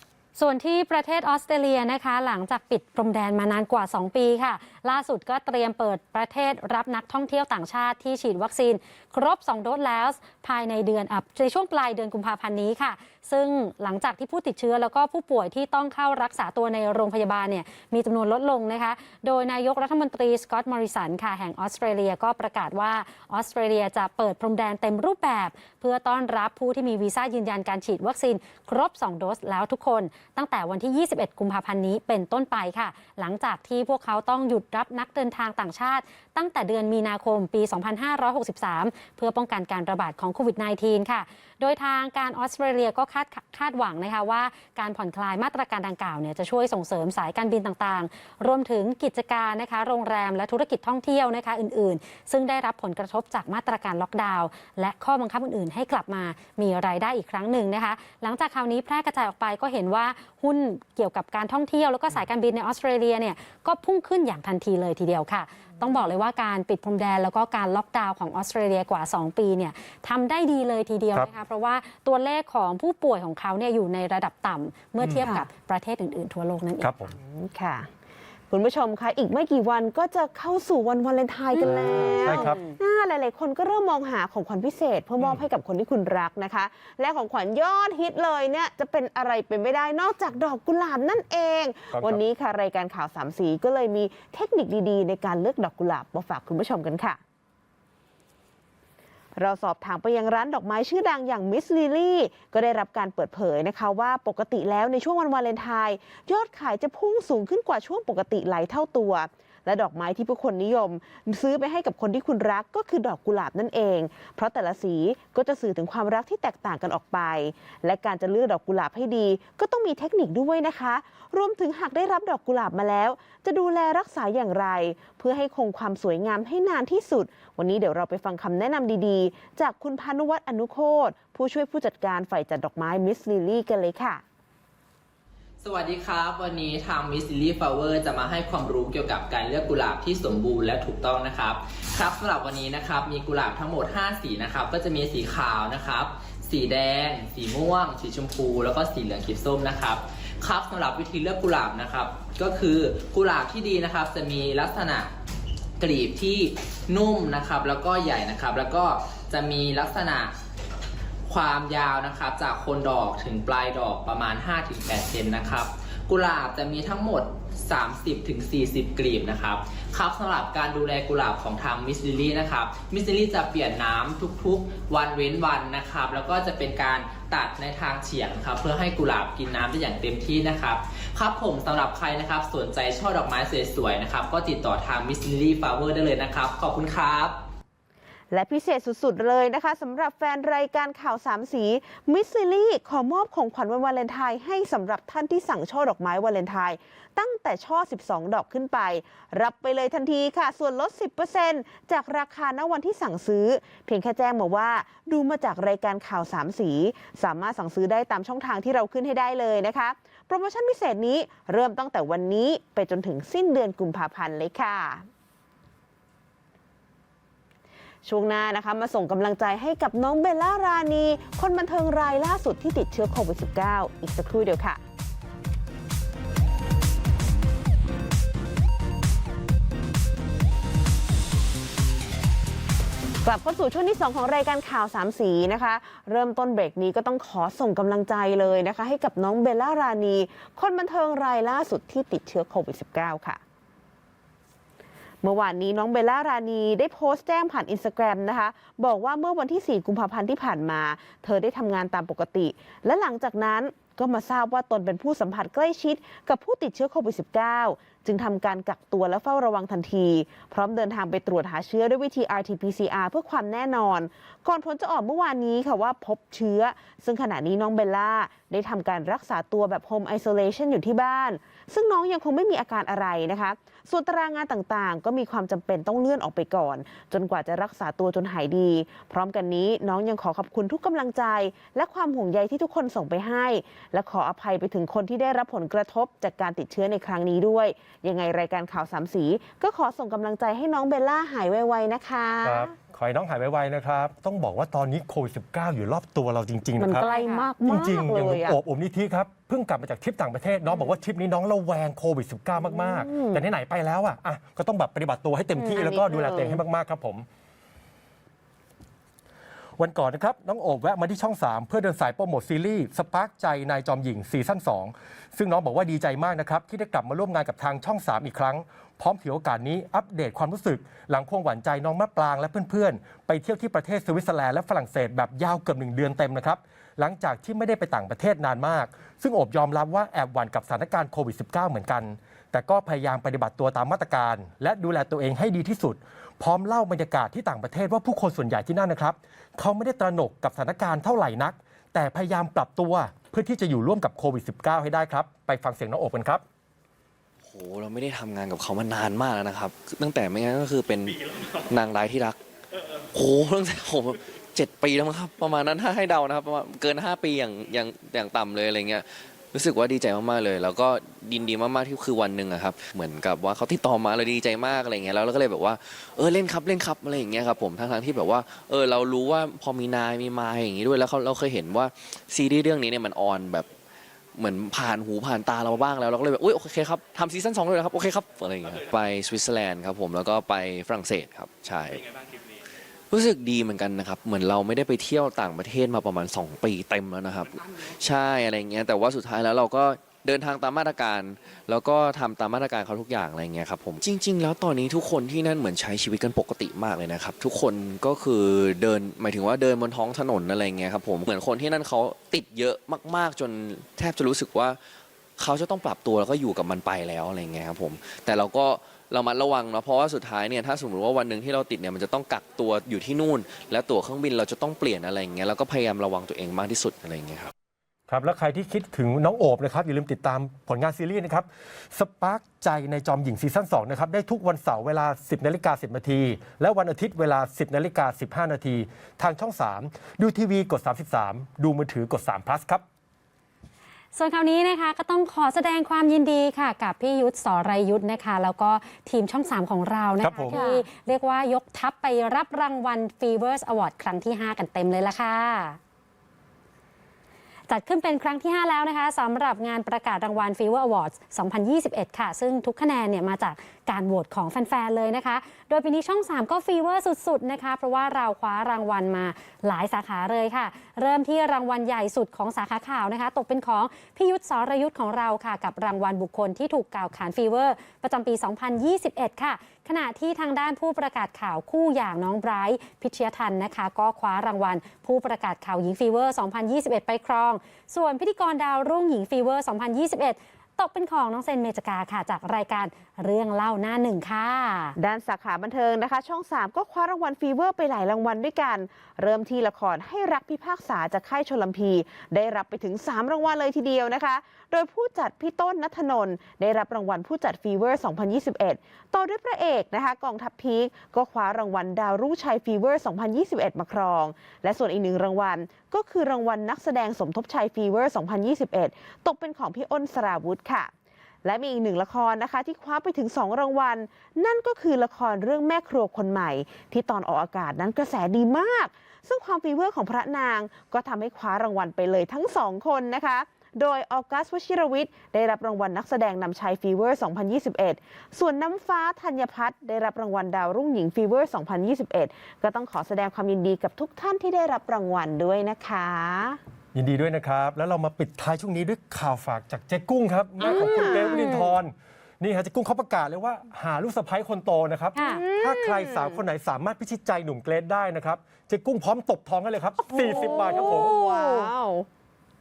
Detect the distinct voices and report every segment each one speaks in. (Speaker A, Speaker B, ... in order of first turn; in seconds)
Speaker A: 0.3-76.9, 81.5-82.7, 297.1-297.5, 434.1-445.8, 447.7-484.9, 540.7-541.5, 545.1-545.4
Speaker B: 75.0-75.3, 76.8-77.2, 81.6-82.6, 91.9-92.2, 292.4-297.1, 297.6-307.2, 309.8-346.4, 418.1-432.8, 440.2-440.6, 536.9-551.6
Speaker C: 75.2-75.5, 77.1-77.9, 78.5-97.2, 99.3-134.2, 188.3-215.1, 218.0-224.8, 233.2-243.4, 245.2-292.7, 296.8-298.6, 302.6-303.4, 305.6-306.6, 440.5-440.8, 485.0-510.9, 511.4-536.6, 540.6-541.6, 545.2-546.4, 550.1-552.1
Speaker D: 135.6-155.1, 155.8-160.3, 161.3-187.3
Speaker E: 347.4-352.4, 353.1-373.7, 374.4-382.1, 383.1-404.8, 405.4-417.5